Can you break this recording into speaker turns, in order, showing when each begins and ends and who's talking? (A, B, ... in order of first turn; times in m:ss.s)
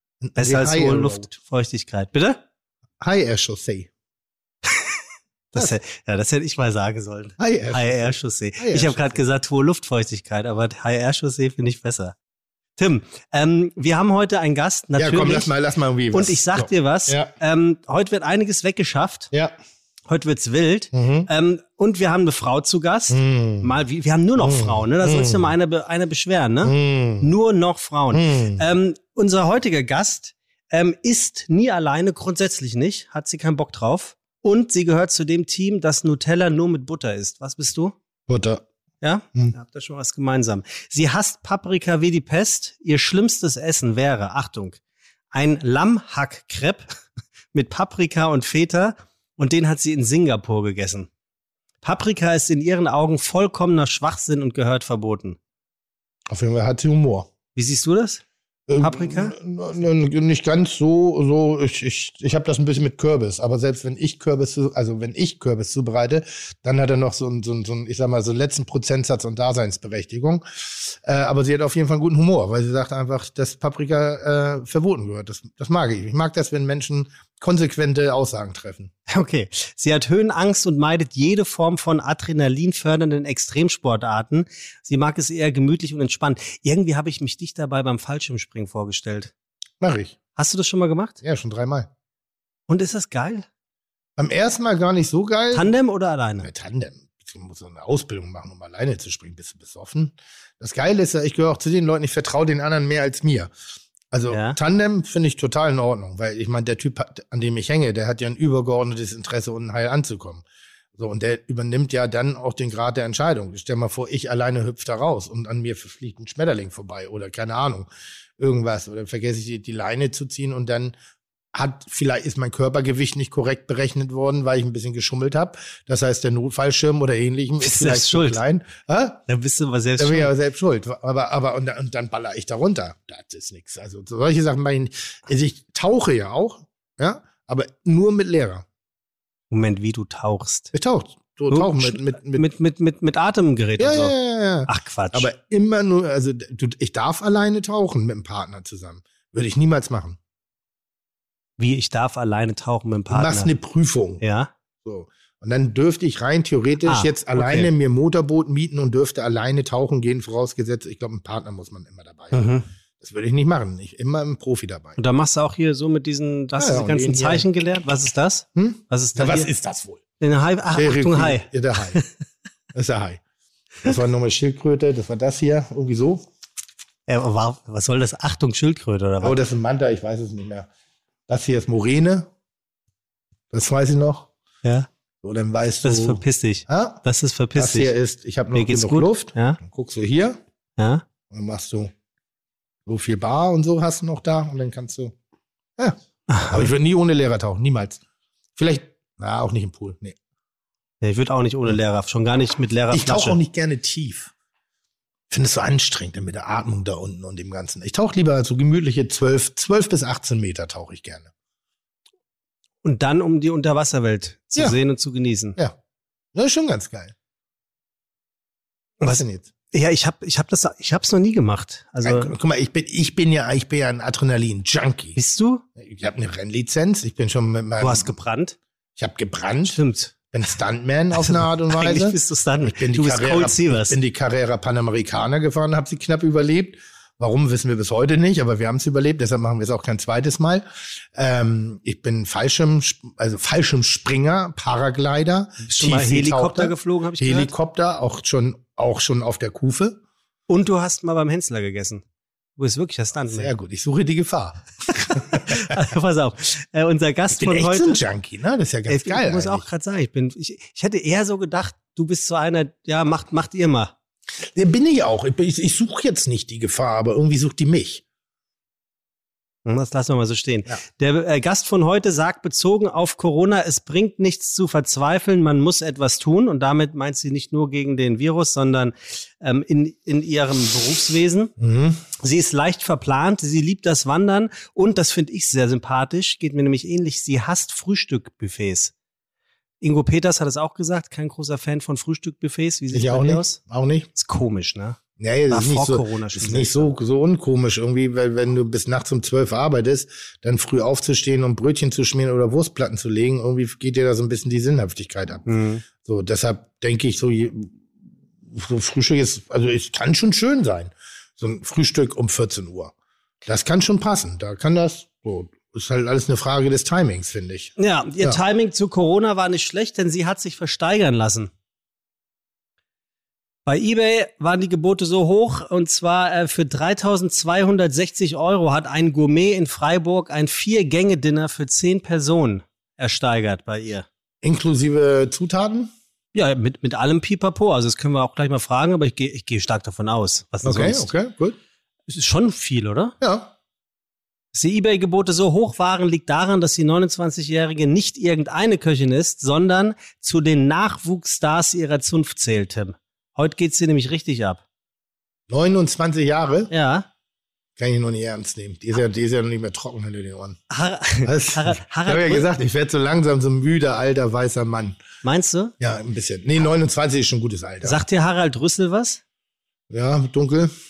0:00.2-0:01.2 A
0:00.4-0:02.4 B
0:03.0-0:03.9 A
0:04.7-0:05.0 B
0:05.5-0:12.1 B
0:07.4-0:09.2 A
0:12.8-0:15.5 B
0:14.9-0:17.3 A
0:16.1-0:19.3 B
0:20.1-0:37.9 B
0:20.9-0:21.3 A
0:23.1-0:23.7 A
0:24.4-0:25.5 A
0:26.6-0:27.3 A
0:28.1-0:28.6 A
0:38.3-0:38.6 A
0:39.0-0:44.8 B
0:45.3-0:46.9 B
0:47.5-0:51.1 B
0:51.8-0:55.4 B
0:56.3-0:57.3 A
0:57.5-0:58.2 B
0:58.7-1:18.9 A
0:58.8-0:59.4 B
1:19.1-1:29.3 B
1:29.8-1:30.2 A
1:30.3-1:31.2 B
1:31.2-1:31.9 A
1:32.7-1:33.5 B
1:34.2-1:35.7 A
1:35.5-1:36.5 B
1:36.4-1:43.5 A
1:44.1-1:50.4 A
1:44.3-1:44.6 B
1:51.0-2:00.9 A
2:01.5-2:09.2 A
2:07.6-2:08.4 B
2:09.3-2:10.3 B
2:10.0-2:18.6 A
2:19.5-2:20.7 B
2:20.7-2:22.5 A
2:21.5-2:24.1 B
2:23.8-2:30.2 A
2:24.7-2:25.3 B
2:31.6-2:33.5 B
2:33.1-2:34.2 A
2:34.2-2:34.5 B
2:34.8-2:45.0 A
2:36.8-2:37.7 B
2:42.3-2:42.6 B
2:45.0-2:49.5 B
2:46.6-2:47.4 A
2:48.6-2:50.0 A
2:50.2-2:52.1 B
2:50.7-2:52.0 A
2:52.7-2:53.2 A
2:53.8-2:56.2 A
2:57.1-2:59.4 B
2:59.2-3:00.7 A
3:01.3-3:02.3 A
3:03.5-3:04.3 A
3:05.2-3:07.0 A
3:05.8-3:07.9 B
3:07.5-3:10.4 A
3:08.5-3:09.6 B
3:10.8-3:11.0 B
3:11.3-3:11.9 A
3:12.8-3:15.1 A
3:16.3-3:16.7 B
3:16.5-3:18.0 A
3:18.6-3:20.2 A
3:21.0-3:23.4 B
3:22.9-3:24.3 A
3:25.3-3:31.3 A
3:32.8-3:35.6 B
3:36.3-3:37.1 A
3:39.0-3:42.3 B
3:39.1-3:39.5 A
3:42.0-3:45.2 A
3:45.2-3:45.6 B
3:45.8-3:48.2 A
3:47.8-3:48.6 B
3:49.0-3:49.8 A
3:49.7-3:50.1 B
3:50.3-4:10.0 A
3:51.2-3:54.0 B
4:05.7-4:07.5 B
4:10.5-4:12.0 B
4:12.6-4:13.5 B
4:13.3-4:15.8 A
4:14.9-4:18.0 B
4:17.4-4:19.6 A
4:18.9-4:23.9 B
4:24.4-4:28.0 A
4:29.6-4:41.5 B
4:41.6-4:42.0 A
4:42.2-4:48.9 B
4:49.8-4:53.6 B
4:52.9-4:54.1 A
4:54.1-4:56.9 B
4:55.2-5:07.7 A
5:05.4-5:05.8 B
5:08.4-5:18.4 A
5:17.8-5:21.5 B
5:23.6-5:34.0 B
5:34.4-5:35.9 A
5:36.3-5:41.1 B
5:40.6-5:41.6 A
5:42.1-5:43.1 B
5:43.2-5:43.5 A
5:44.5-5:54.6 B
5:55.5-5:56.7 A
5:56.7-5:57.1 B
5:57.8-6:00.6 A
6:00.7-6:02.5 B
6:01.2-6:05.0 A
6:05.2-6:05.7 B
6:05.8-6:08.0 A
6:07.8-6:09.2 B
6:09.9-6:10.7 A